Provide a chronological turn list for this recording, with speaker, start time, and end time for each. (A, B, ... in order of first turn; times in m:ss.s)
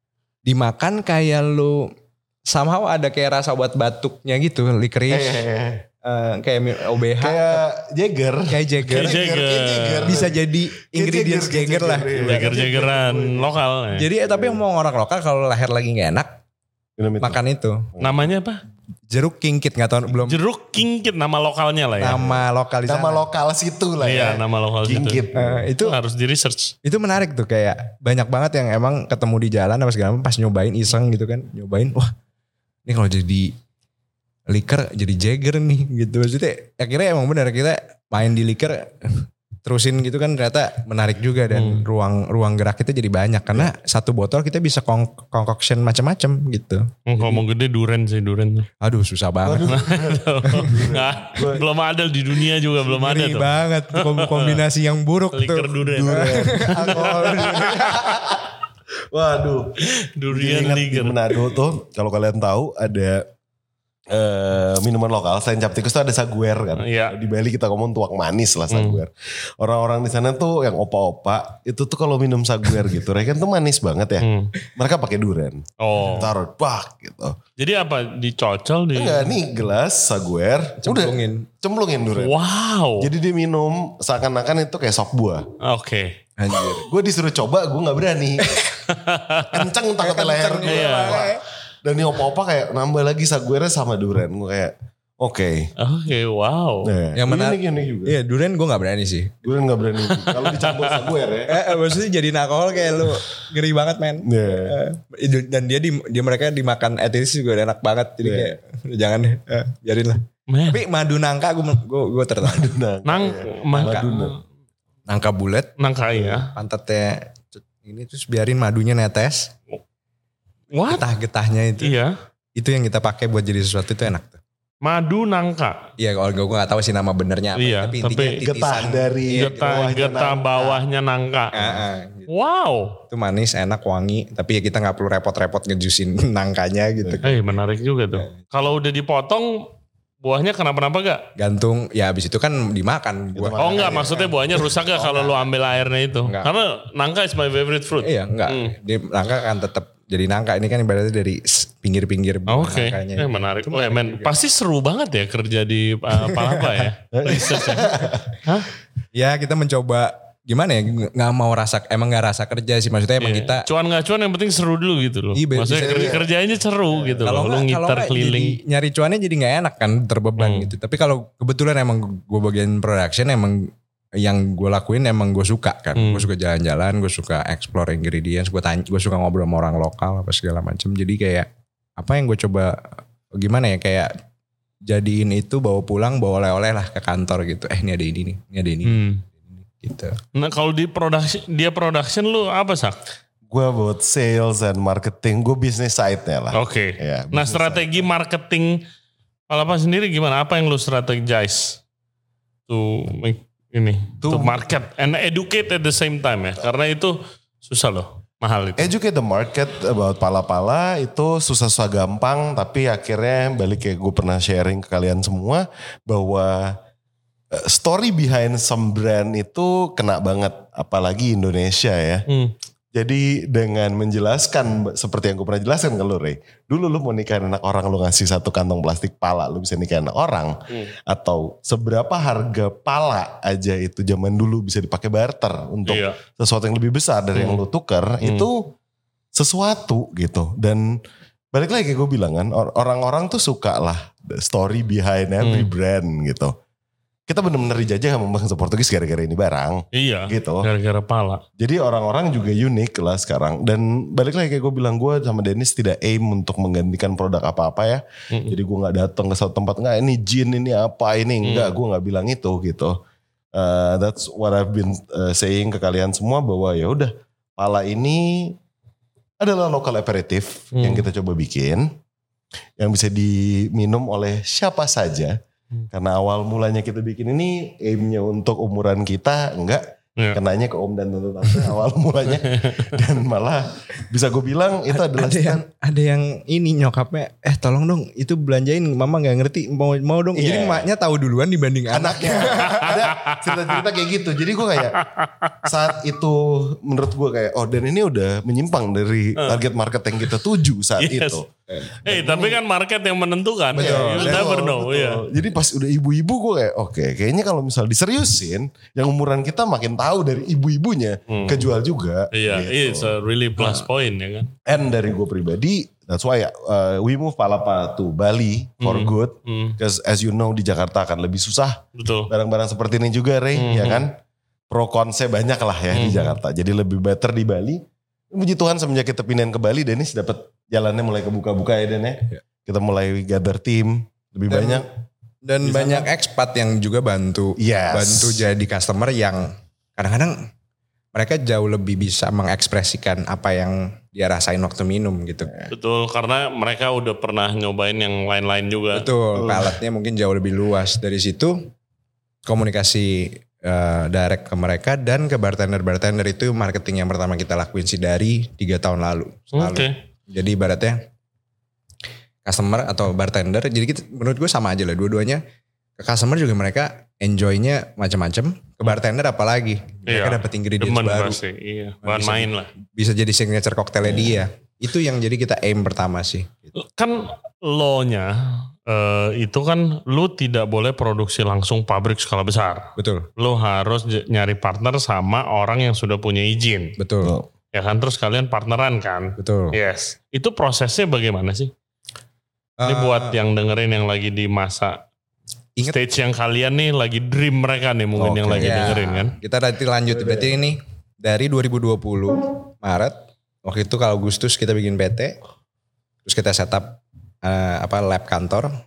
0:00.5-0:01.9 A
0:02.5-0:05.4 A
0:05.1-0:05.8 B
0:06.0-0:07.6 A
0:07.2-0:13.5 B
0:08.5-0:09.2 A
0:08.9-0:10.2 C
0:10.0-0:12.6 A
0:12.2-0:14.1 C
0:14.0-0:16.4 A
0:14.2-0:14.6 B
0:17.0-0:17.4 B
0:17.2-0:17.9 A
0:18.0-0:18.3 B
0:18.0-0:18.6 C
0:19.1-0:20.4 A
0:20.1-0:22.4 C
0:22.0-0:23.2 A
0:22.8-0:25.7 B
0:24.0-0:25.2 C
0:25.3-0:26.0 A
0:25.8-0:26.7 C
0:26.8-0:32.1 A
0:32.9-0:33.5 A
0:34.5-0:47.4 A
0:41.5-0:41.9 C
0:47.1-0:48.7 C
0:48.8-0:49.8 A
0:49.4-0:51.7 B
0:49.7-0:54.6 C
0:52.8-0:58.2 A
0:55.3-0:57.8 C
0:56.0-0:58.6 B
0:59.1-1:03.2 B
1:00.0-1:01.6 C
1:04.1-1:17.4 B
1:06.8-1:07.2 C
1:08.7-1:09.0 C
1:14.2-1:14.5 C
1:15.8-1:16.3 C
1:17.6-1:19.3 C
1:18.9-1:22.4 B
1:20.8-1:21.5 A
1:22.1-1:23.1 C
1:23.0-1:25.4 B
1:25.6-1:26.1 C
1:26.4-1:26.9 A
1:26.5-1:28.5 B
1:28.9-1:29.5 C
1:29.5-1:35.7 B
1:30.0-1:31.4 A
1:30.6-1:31.3 C
1:35.8-1:36.9 C
1:36.8-1:38.2 B
1:37.2-1:39.4 A
1:39.4-1:41.6 B
1:40.2-1:41.1 C
1:41.5-1:52.7 A
1:44.3-1:44.7 B
1:48.2-1:48.6 B
1:50.5-1:50.8 C
1:52.4-1:54.4 B
1:53.1-1:54.4 C
1:53.7-1:54.1 A
1:55.1-1:55.7 A
1:55.8-1:56.5 C
1:56.5-1:59.6 A
2:00.7-2:01.1 C
2:00.8-2:02.0 A
2:01.8-2:02.1 C
2:02.6-2:04.4 A
2:04.8-2:05.8 C
2:06.0-2:09.9 A
2:07.6-2:08.4 C
2:08.4-2:10.8 B
2:09.3-2:13.0 C
2:11.5-2:12.3 A
2:13.1-2:17.4 A
2:17.2-2:19.7 C
2:20.2-2:21.2 C
2:21.4-2:24.1 A
2:23.4-2:25.5 B
2:23.6-2:28.8 C
2:26.3-2:26.5 A
2:28.0-2:34.3 A
2:32.5-2:37.9 C
2:36.1-2:37.8 A
2:37.1-2:38.4 B
2:39.2-2:43.7 A
2:43.2-2:48.6 C
2:45.4-2:46.2 A
2:45.7-2:46.3 B
2:46.9-2:47.3 B
2:47.3-3:04.1 A
2:50.4-2:50.7 C
2:56.0-2:56.3 C
3:04.9-3:10.2 A
3:08.8-3:09.2 C
3:10.4-3:13.0 C
3:13.5-3:18.1 B
3:16.5-3:18.8 C
3:19.5-3:21.8 C
3:22.7-3:28.9 C
3:24.2-3:24.6 B
3:28.8-3:36.8 B
3:37.5-3:42.3 B
3:42.3-3:42.5 C
3:43.0-3:58.7 B
3:55.9-3:56.2 C
3:57.4-3:57.6 C
3:58.2-3:58.5 C
3:59.4-4:01.0 B
4:01.5-4:06.5 B
4:05.4-4:05.7 C
4:07.3-4:10.7 B
4:09.9-4:11.4 C
4:11.6-4:23.0 B
4:21.4-4:21.7 C
4:23.6-4:28.6 B
4:29.4-4:31.9 B
4:30.8-4:31.1 C
4:32.8-4:35.4 B
4:35.9-4:45.6 B
4:42.4-4:43.0 C
4:44.9-4:53.0 A
4:50.4-4:50.9 B
4:51.9-4:55.0 B
4:52.6-4:53.8 C
4:54.8-4:55.8 C
4:55.6-5:01.5 B
5:01.0-5:01.4 C
5:02.0-5:02.6 B
5:02.0-5:05.2 C
5:03.8-5:13.2 B
5:03.8-5:04.5 A
5:11.3-5:11.7 C
5:12.3-5:14.5 C
5:13.6-5:13.8 A
5:14.7-5:24.2 B
5:18.8-5:19.8 C
5:22.0-5:22.3 C
5:23.6-5:24.1 C
5:24.7-5:34.9 B
5:25.9-5:26.4 C
5:34.5-5:34.8 A
5:35.5-5:40.4 A
5:35.6-5:36.1 B
5:37.6-5:38.5 B
5:41.2-5:45.5 A
5:45.7-5:49.1 C
5:48.9-5:51.6 A
5:49.4-5:49.8 B
5:52.5-6:01.0 A
5:59.6-6:00.0 C
6:02.4-6:05.4 A
6:06.0-6:11.4 A
6:10.1-6:12.7 C
6:12.0-6:16.7 A
6:14.0-6:14.4 B
6:16.8-6:27.0 C
6:23.0-6:23.3 A
6:27.0-6:27.3 A
6:27.2-6:27.5 B
6:27.7-6:31.7 C
6:29.4-6:29.8 A
6:32.8-6:33.4 A
6:32.8-6:35.0 C
6:35.8-6:39.4 C
6:38.2-6:39.0 B
6:38.5-6:45.4 A
6:40.1-6:40.6 B
6:46.2-6:48.7 A